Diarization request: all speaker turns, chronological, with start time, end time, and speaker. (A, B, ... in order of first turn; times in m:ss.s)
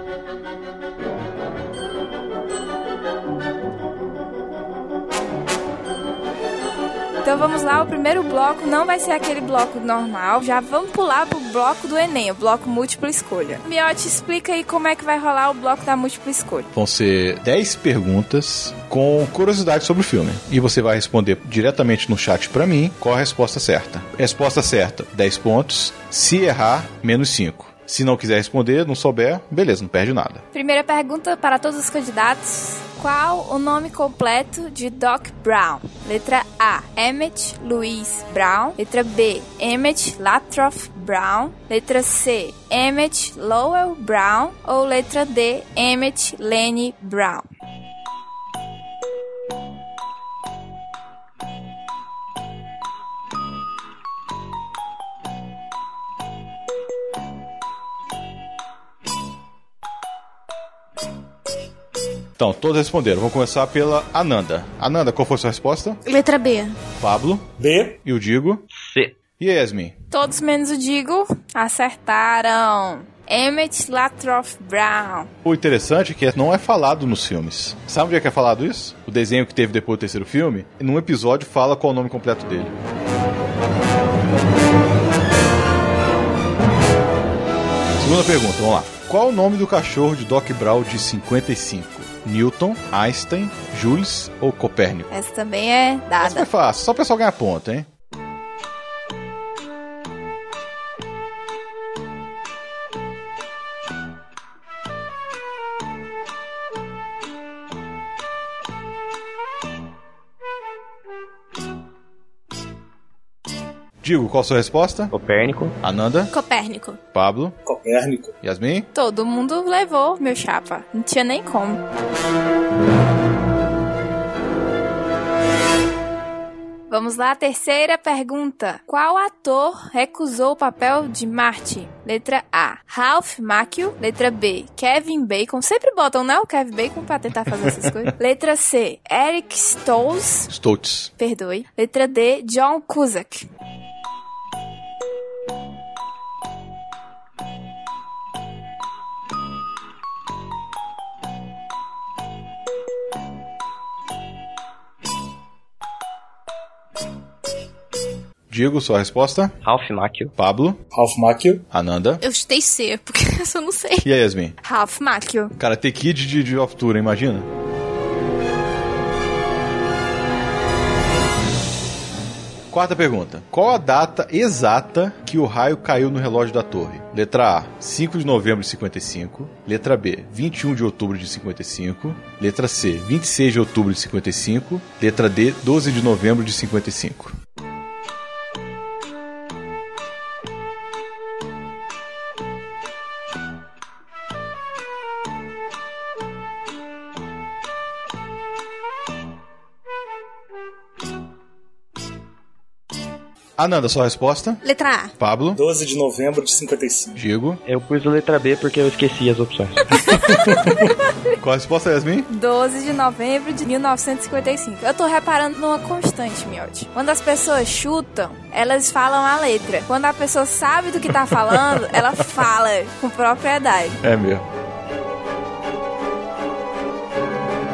0:07.2-0:16.7 A
0:16.7-0:30.4 B
0:30.5-0:47.4 A
1:02.4-1:06.0 B
1:06.1-1:06.8 C
1:07.0-1:07.5 B
1:07.6-1:08.0 D
1:08.0-1:08.6 B
1:08.8-1:09.2 E
1:09.4-1:10.0 B
1:10.1-1:15.3 A
1:15.4-1:22.8 B
1:28.0-1:35.1 B
1:35.1-1:36.5 A
1:36.2-1:37.9 B
1:54.0-1:55.1 B
1:55.1-1:55.8 E
1:55.8-1:56.3 B
1:56.3-1:57.0 C
1:57.1-1:57.6 B
1:57.6-1:58.4 D
1:58.4-1:58.9 B
1:58.9-2:01.8 A
2:06.9-2:20.5 A
2:20.5-2:21.1 B
2:21.2-2:23.5 A
2:38.5-2:39.6 B
2:39.6-2:40.3 E
2:40.4-2:40.8 B
2:40.9-2:41.6 D
2:41.7-2:42.2 B
2:42.2-2:44.1 C
2:44.0-2:44.6 B
2:44.6-2:45.5 A
2:45.6-2:47.5 B
2:52.7-3:07.3 B
3:23.6-3:24.6 B
3:24.6-3:25.1 C
3:25.2-3:25.6 B
3:25.6-3:27.2 D
3:27.2-3:27.6 B
3:27.7-3:30.0 E
3:31.4-3:32.3 B
3:32.3-3:44.0 A
3:41.5-3:42.0 B
3:44.0-3:44.4 B